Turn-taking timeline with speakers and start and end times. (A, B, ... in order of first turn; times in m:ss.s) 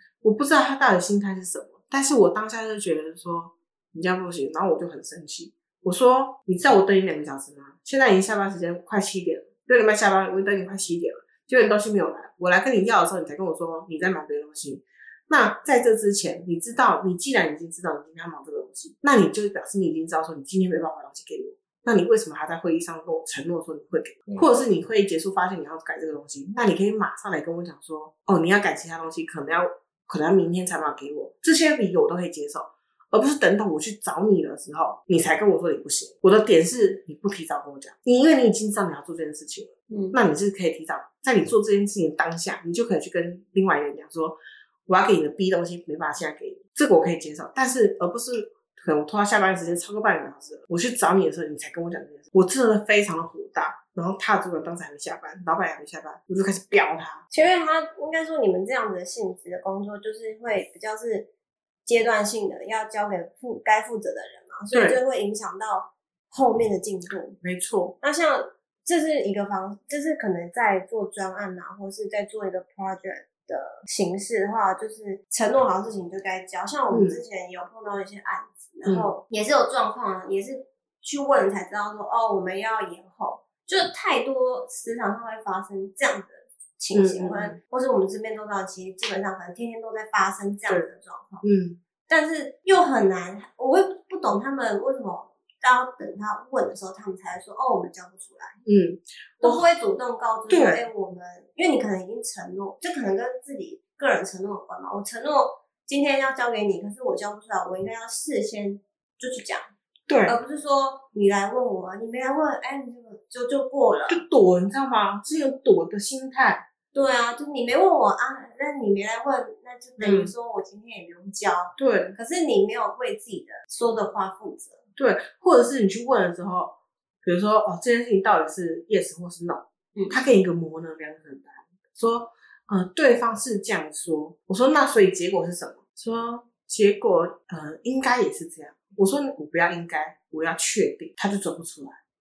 0:00.2-0:57.2 A
0:39.9-0:40.2 B
0:57.3-1:01.3 B
1:01.8-1:07.4 B
1:04.7-1:05.0 A
1:07.4-1:07.9 A
1:08.0-1:31.4 B
1:16.9-1:17.2 A
1:18.8-1:19.1 A
1:26.9-1:27.6 A
1:31.4-1:31.8 A
1:32.1-1:38.6 B
1:38.6-1:39.6 A
1:39.4-1:49.6 B
1:40.5-1:40.8 A
1:50.1-1:50.4 A
1:50.3-1:54.2 B
1:54.1-1:56.6 A
1:56.9-2:04.8 B
2:00.0-2:00.3 A
2:01.8-2:02.2 A
2:05.0-2:22.0 A
2:09.9-2:10.2 B